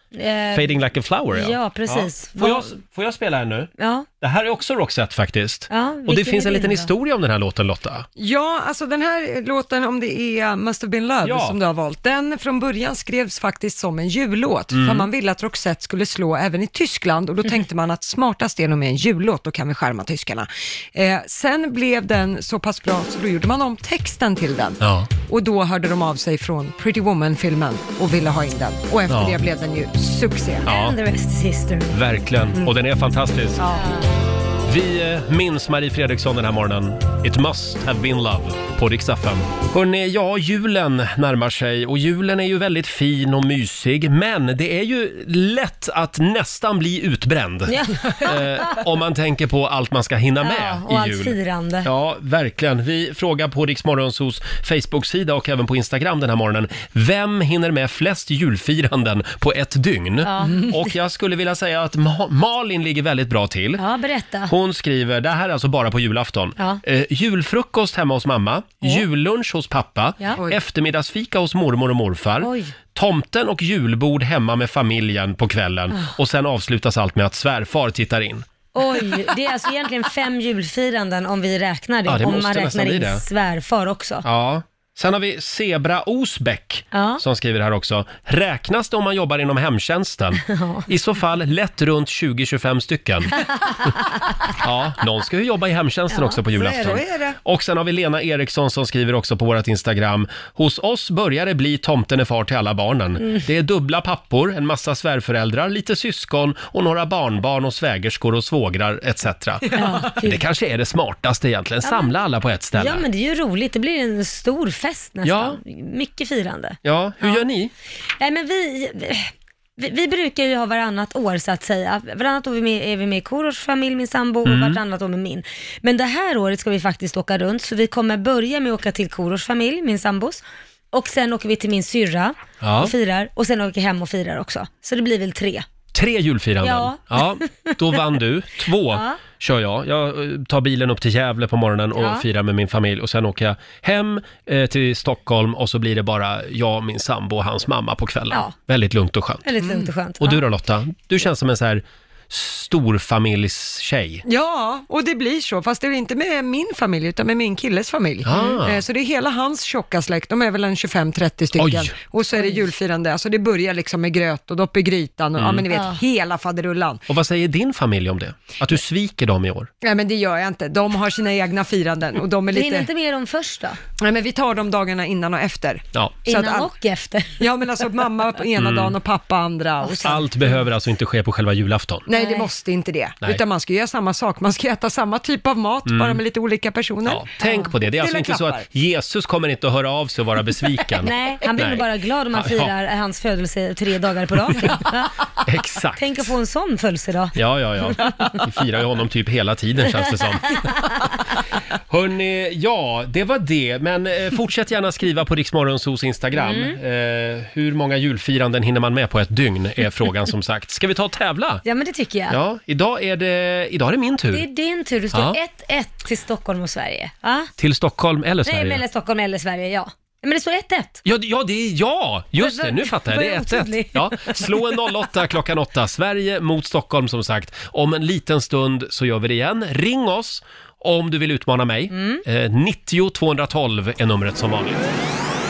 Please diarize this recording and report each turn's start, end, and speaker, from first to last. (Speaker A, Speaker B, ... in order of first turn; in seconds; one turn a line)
Speaker A: 0.1-0.8
Speaker B: 0.5-3.7
Speaker A: 1.3-2.7
Speaker A: 3.8-4.1
Speaker B: 4.2-8.1
Speaker A: 5.7-6.9
Speaker C: 8.2-30.6
Speaker B: 11.2-11.6
Speaker B: 14.7-15.1
Speaker B: 24.8-25.1
Speaker B: 29.1-29.4
Speaker B: 30.6-31.0
Speaker A: 30.6-32.0
Speaker B: 31.9-33.6
Speaker C: 33.6-33.8
Speaker A: 33.6-34.0
Speaker B: 34.6-63.8
Speaker A: 47.7-48.8
Speaker A: 50.4-51.9
Speaker A: 60.2-60.8
Speaker A: 63.8-64.5
Speaker B: 64.5-78.5
Speaker A: 72.4-72.7
Speaker A: 78.7-84.2
Speaker B: 82.0-83.2
Speaker B: 84.2-93.3
Speaker A: 86.9-87.2
Speaker A: 90.4-90.9
Speaker B: 94.6-113.0
Speaker A: 96.1-96.4
Speaker C: 96.5-97.4
Speaker A: 103.2-103.4
Speaker A: 109.7-110.4
Speaker A: 111.8-112.1
Speaker A: 112.7-117.4
Speaker B: 115.2-115.6
Speaker B: 116.8-117.7
Speaker A: 118.2-135.7
Speaker B: 124.4-124.8
Speaker B: 132.6-132.9
Speaker B: 135.9-149.5
Speaker A: 136.6-137.7
Speaker A: 138.9-139.2
Speaker A: 141.9-142.2
Speaker A: 149.4-150.4
Speaker C: 149.6-149.9
Speaker B: 150.2-154.2
Speaker C: 154.2-167.0
Speaker B: 158.2-158.8
Speaker B: 161.6-161.9
Speaker A: 162.3-162.6
Speaker B: 165.3-165.6
Speaker A: 165.7-166.0
Speaker B: 167.1-169.7
Speaker C: 169.8-172.9
Speaker A: 172.5-173.8
Speaker C: 174.0-176.7
Speaker A: 176.2-177.4
Speaker C: 177.4-180.5
Speaker B: 178.6-178.9
Speaker B: 180.0-182.1
Speaker C: 182.1-188.6
Speaker A: 182.1-182.5
Speaker B: 185.8-186.2
Speaker B: 187.1-192.7
Speaker A: 191.0-195.1
Speaker B: 195.4-196.1
Speaker A: 196.0-197.9
Speaker B: 197.3-200.6
Speaker B: 201.9-211.6
Speaker A: 206.3-206.8
Speaker A: 211.6-212.4
Speaker B: 212.3-214.4
Speaker A: 214.3-217.5
Speaker B: 215.1-215.4
Speaker B: 217.6-218.8
Speaker A: 218.4-221.0
Speaker B: 221.0-234.8
Speaker A: 222.4-224.6
Speaker A: 231.9-232.2